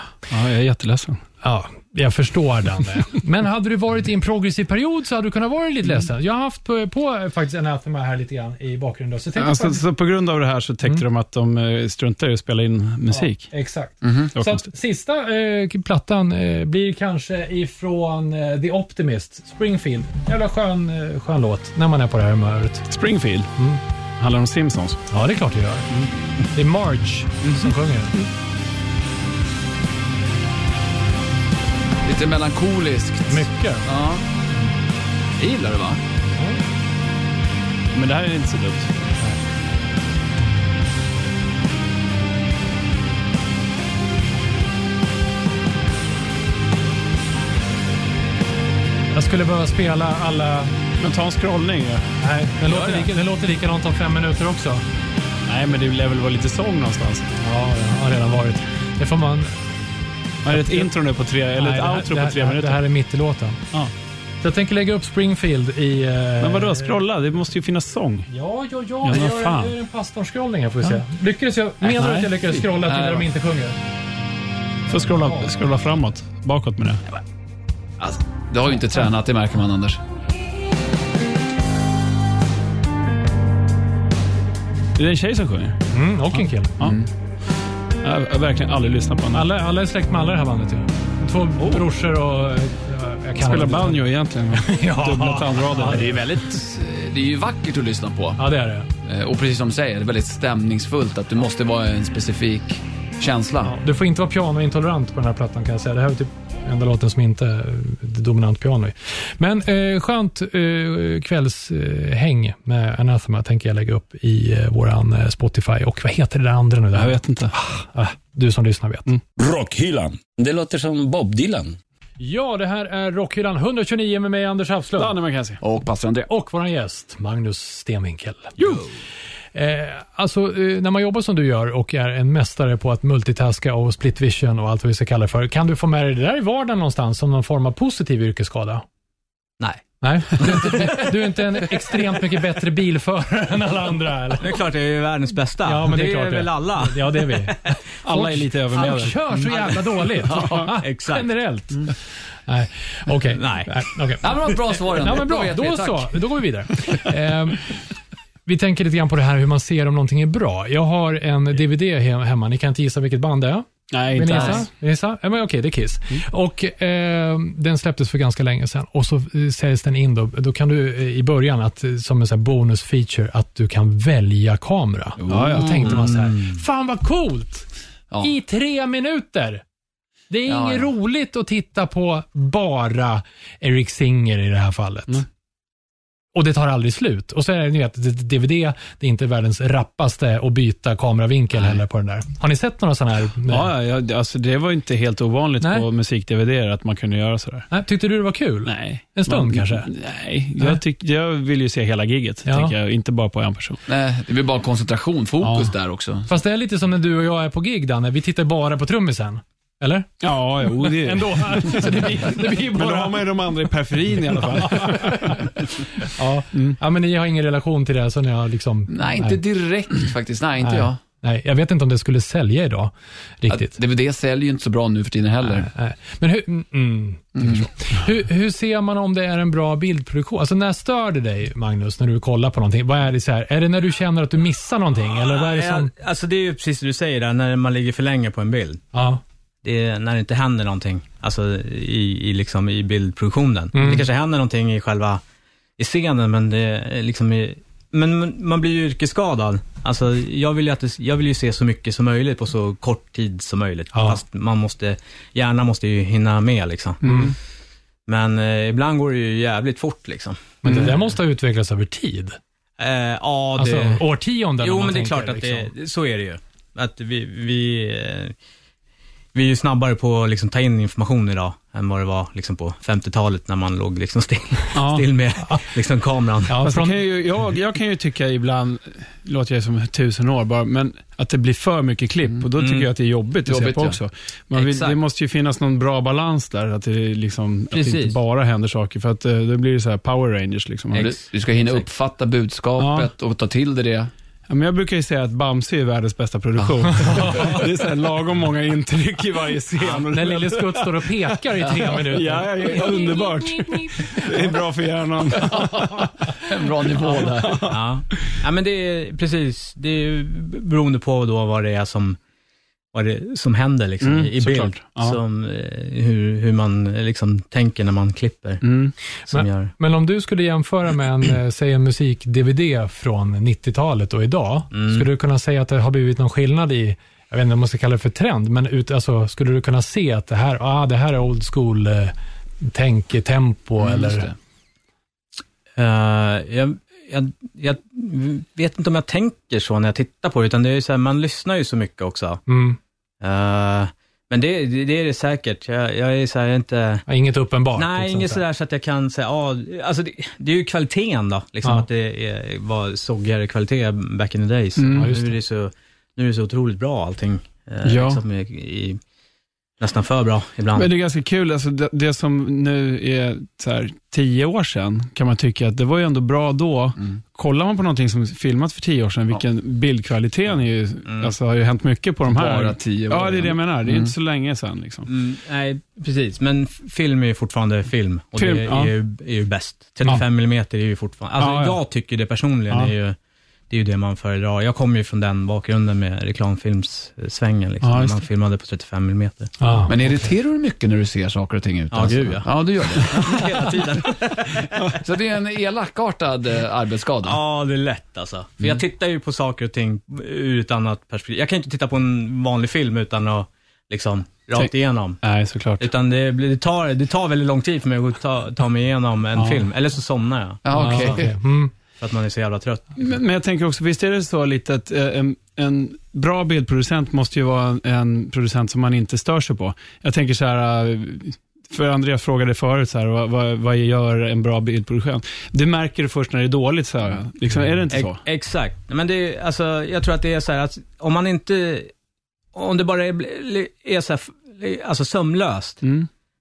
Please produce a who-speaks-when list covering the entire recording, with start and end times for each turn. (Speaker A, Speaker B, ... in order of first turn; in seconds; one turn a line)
Speaker A: 0.3-1.2
Speaker B: 1.4-9.8
Speaker A: 9.4-13.5
Speaker B: 13.1-22.9
Speaker C: 14.0-14.3
Speaker A: 14.3-14.6
Speaker A: 22.9-23.5
Speaker A: 24.2-25.0
Speaker B: 25.1-25.9
Speaker B: 26.5-28.1
Speaker A: 27.4-28.3
Speaker C: 32.0-34.2
Speaker B: 33.3-33.9
Speaker C: 35.4-36.0
Speaker B: 36.2-36.6
Speaker A: 37.9-38.9
Speaker B: 49.1-50.7
Speaker A: 51.0-52.0
Speaker B: 52.2-54.8
Speaker A: 55.5-57.3
Speaker B: 57.4-59.6
Speaker A: 60.4-62.8
Speaker B: 60.5-60.9
Speaker B: 61.6-63.6
Speaker B: 64.4-67.0
Speaker A: 66.4-68.3
Speaker B: 68.3-73.8
Speaker A: 69.0-69.7
Speaker A: 71.8-72.7
Speaker C: 72.8-73.2
Speaker A: 74.9-77.0
Speaker B: 74.9-75.5
Speaker C: 78.0-80.0
Speaker A: 85.0-85.8
Speaker B: 85.9-86.8
Speaker A: 86.3-87.0
Speaker C: 86.8-87.1
Speaker A: 88.0-89.5
Speaker B: 89.3-96.6
Speaker A: 91.6-91.8
Speaker A: 93.4-96.5
Speaker C: 96.5-98.4
Speaker B: 98.4-98.9
Speaker C: 99.0-103.8
Speaker B: 103.6-119.1
Speaker A: 116.9-117.5
Speaker D: 119.4-121.7
Speaker B: 122.2-125.2
Speaker A: 125.0-125.6
Speaker C: 125.6-126.3
Speaker B: 126.3-128.6
Speaker B: 129.5-138.8
Speaker B: 140.0-144.6
Speaker E: 140.4-140.8
Speaker E: 144.4-147.8
Speaker B: 145.6-147.6
Speaker A: 148.0-149.2
Speaker B: 148.1-151.9
Speaker C: 150.3-150.7
Speaker E: 150.8-151.3
Speaker B: 152.5-154.3
Speaker E: 153.3-153.7
Speaker C: 154.2-156.2
Speaker B: 154.8-157.7
Speaker B: 158.4-177.7
Speaker A: 163.9-164.7
Speaker C: 175.2-176.0
Speaker E: 175.8-176.6
Speaker B: 178.2-179.6
Speaker B: 180.3-185.2
Speaker C: 180.4-180.9
Speaker B: 186.3-193.7
Speaker A: 193.5-197.7
Speaker B: 195.6-195.9
Speaker B: 197.7-199.9
Speaker A: 198.7-203.8
Speaker B: 202.4-202.7
Speaker C: 203.8-206.3
Speaker A: 205.4-205.7
Speaker B: 206.3-213.3
Speaker A: 210.2-212.1
Speaker A: 212.7-215.5
Speaker B: 214.2-219.4
Speaker C: 218.9-221.0
Speaker B: 220.6-223.7
Speaker C: 223.5-225.7
Speaker B: 225.4-235.9
Speaker C: 227.3-227.7
Speaker E: 235.1-238.8
Speaker B: 238.9-239.2
Speaker E: 239.6-245.2
Speaker B: 243.7-244.1
Speaker E: 245.8-257.2
Speaker B: 253.9-254.2
Speaker A: 257.0-257.3
Speaker B: 257.0-257.3
Speaker E: 258.1-261.1
Speaker B: 260.6-262.4
Speaker E: 262.8-264.0
Speaker B: 263.6-265.7
Speaker E: 264.6-268.3
Speaker E: 269.3-276.6
Speaker A: 274.7-275.0
Speaker B: 276.5-277.0
Speaker A: 276.6-291.1
Speaker E: 282.6-282.9
Speaker C: 283.4-284.0
Speaker E: 284.5-285.0
Speaker E: 287.7-288.2
Speaker E: 290.9-291.8
Speaker C: 290.9-294.1
Speaker A: 292.8-293.1
Speaker A: 294.5-301.1
Speaker C: 296.6-297.5
Speaker B: 297.0-297.6
Speaker B: 300.1-304.6
Speaker C: 301.6-301.9
Speaker A: 301.9-306.1
Speaker B: 305.4-306.1
Speaker C: 305.5-307.8
Speaker A: 307.1-307.8
Speaker E: 307.7-312.2
Speaker E: 312.9-318.6
Speaker A: 314.0-315.2
Speaker A: 318.6-318.9
Speaker B: 319.3-334.3
Speaker E: 319.3-319.7
Speaker E: 324.7-325.1
Speaker C: 333.8-334.3
Speaker E: 335.8-342.4
Speaker B: 342.5-342.8
Speaker E: 343.2-347.0
Speaker B: 347.1-348.4
Speaker E: 347.7-359.0
Speaker A: 354.8-355.1
Speaker B: 354.9-355.4
Speaker A: 357.8-358.2
Speaker E: 359.8-360.9
Speaker A: 360.7-375.1
Speaker E: 371.0-371.3
Speaker C: 372.3-374.1
Speaker E: 375.1-383.1
Speaker A: 378.4-378.9
Speaker A: 381.4-381.8
Speaker E: 383.7-389.5
Speaker A: 387.8-388.2
Speaker B: 389.6-389.9
Speaker C: 389.9-393.4
Speaker E: 391.9-395.0
Speaker C: 395.0-397.4
Speaker E: 397.2-405.2
Speaker A: 404.6-405.9
Speaker E: 405.8-411.2
Speaker A: 409.4-409.6
Speaker C: 410.6-411.3
Speaker B: 410.7-411.7
Speaker E: 412.0-413.0
Speaker A: 413.0-428.2
Speaker E: 427.9-431.9
Speaker E: 432.5-435.8